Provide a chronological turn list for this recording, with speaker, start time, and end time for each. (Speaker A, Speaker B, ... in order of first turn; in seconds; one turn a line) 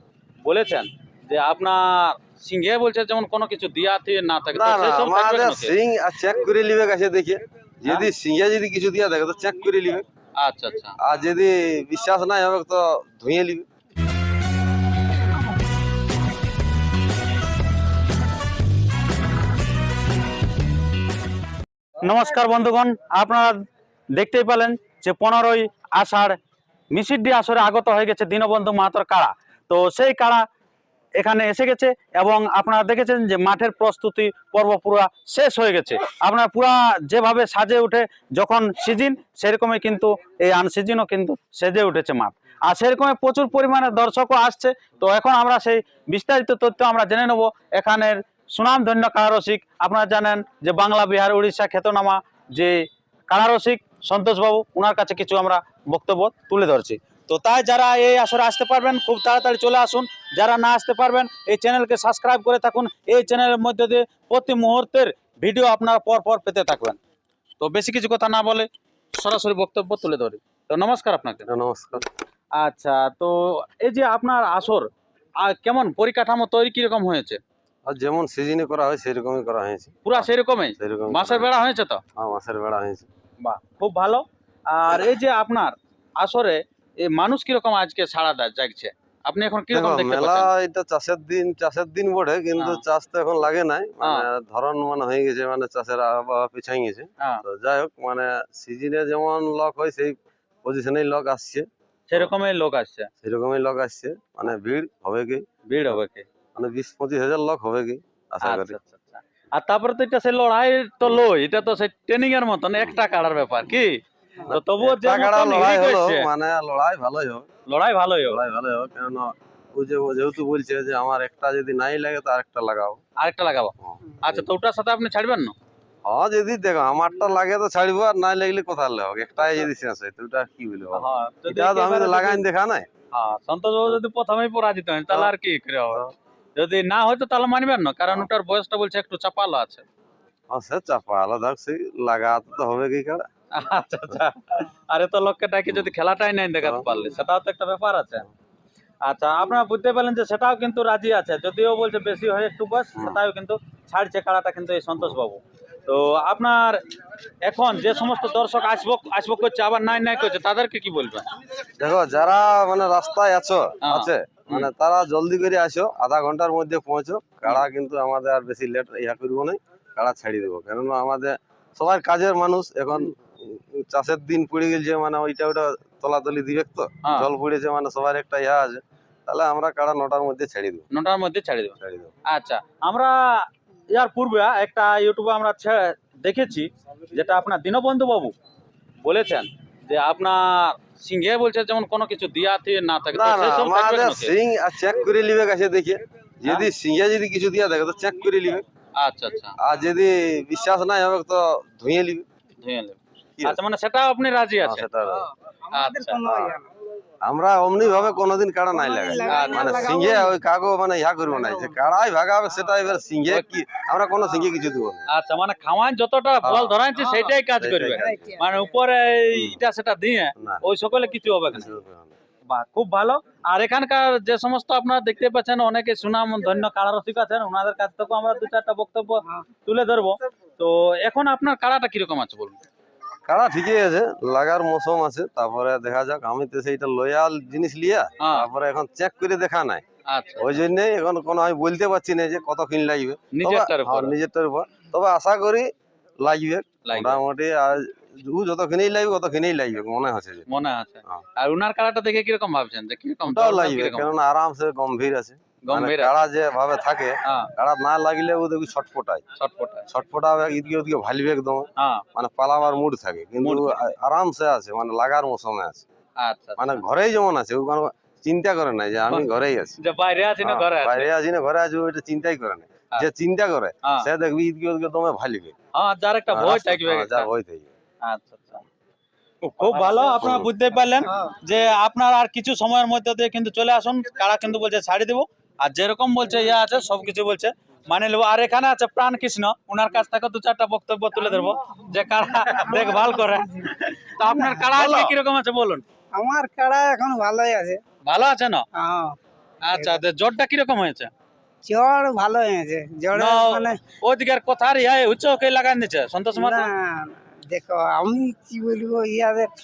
Speaker A: 0.4-5.7
Speaker B: 4.5-10.1
Speaker A: 10.4-10.9
Speaker B: 11.0-13.7
Speaker A: 22.0-26.4
Speaker A: 26.9-30.4
Speaker A: 31.2-67.0
Speaker A: 67.6-71.5
Speaker B: 71.5-72.0
Speaker A: 72.6-74.9
Speaker A: 75.4-77.4
Speaker B: 77.8-80.2
Speaker A: 80.0-82.0
Speaker B: 80.8-81.5
Speaker B: 82.2-83.1
Speaker A: 83.4-90.5
Speaker B: 89.7-102.3
Speaker A: 94.0-94.3
Speaker A: 102.1-103.1
Speaker B: 103.2-105.9
Speaker A: 105.7-106.3
Speaker B: 106.5-108.8
Speaker A: 108.4-116.3
Speaker B: 114.5-117.5
Speaker A: 117.7-118.4
Speaker B: 118.3-123.0
Speaker A: 123.2-125.5
Speaker B: 123.8-124.4
Speaker B: 126.0-132.9
Speaker A: 130.9-132.4
Speaker A: 133.1-136.0
Speaker A: 136.6-139.8
Speaker B: 140.5-143.3
Speaker A: 143.5-148.3
Speaker B: 146.6-146.9
Speaker A: 149.0-156.8
Speaker A: 157.4-161.2
Speaker B: 161.8-180.9
Speaker A: 163.8-164.7
Speaker A: 180.9-181.8
Speaker B: 181.8-182.1
Speaker A: 182.3-188.3
Speaker A: 189.0-194.3
Speaker B: 193.1-198.6
Speaker A: 199.0-199.6
Speaker B: 199.6-202.2
Speaker A: 202.6-204.9
Speaker B: 204.6-205.3
Speaker C: 205.7-206.7
Speaker A: 205.7-206.2
Speaker B: 206.2-206.6
Speaker B: 207.2-215.0
Speaker C: 208.7-210.3
Speaker A: 209.3-209.7
Speaker C: 211.4-211.7
Speaker A: 215.1-221.7
Speaker B: 216.4-216.8
Speaker B: 217.6-218.3
Speaker C: 218.0-218.6
Speaker B: 219.3-219.6
Speaker B: 220.4-220.6
Speaker B: 221.5-222.1
Speaker A: 222.5-232.6
Speaker B: 233.3-239.8
Speaker A: 238.2-238.5
Speaker A: 240.1-240.6
Speaker B: 240.4-245.7
Speaker A: 243.3-244.1
Speaker B: 246.2-250.4
Speaker A: 246.8-247.2
Speaker A: 250.5-254.1
Speaker B: 253.2-259.2
Speaker A: 255.6-256.1
Speaker A: 257.2-257.5
Speaker A: 259.4-259.9
Speaker B: 259.9-265.8
Speaker A: 261.8-262.0
Speaker A: 263.4-263.8
Speaker A: 266.2-266.8
Speaker B: 266.6-269.8
Speaker A: 269.8-271.1
Speaker B: 270.4-275.5
Speaker A: 275.7-277.3
Speaker B: 276.3-277.7
Speaker A: 278.0-278.6
Speaker A: 279.4-295.8
Speaker B: 279.7-280.5
Speaker C: 292.5-293.5
Speaker C: 294.2-294.7
Speaker B: 294.7-295.1
Speaker C: 296.1-297.8
Speaker A: 298.0-298.6
Speaker C: 298.7-299.2
Speaker A: 299.6-301.1
Speaker C: 299.7-300.0
Speaker C: 301.6-303.8
Speaker A: 303.1-306.7
Speaker C: 306.3-309.5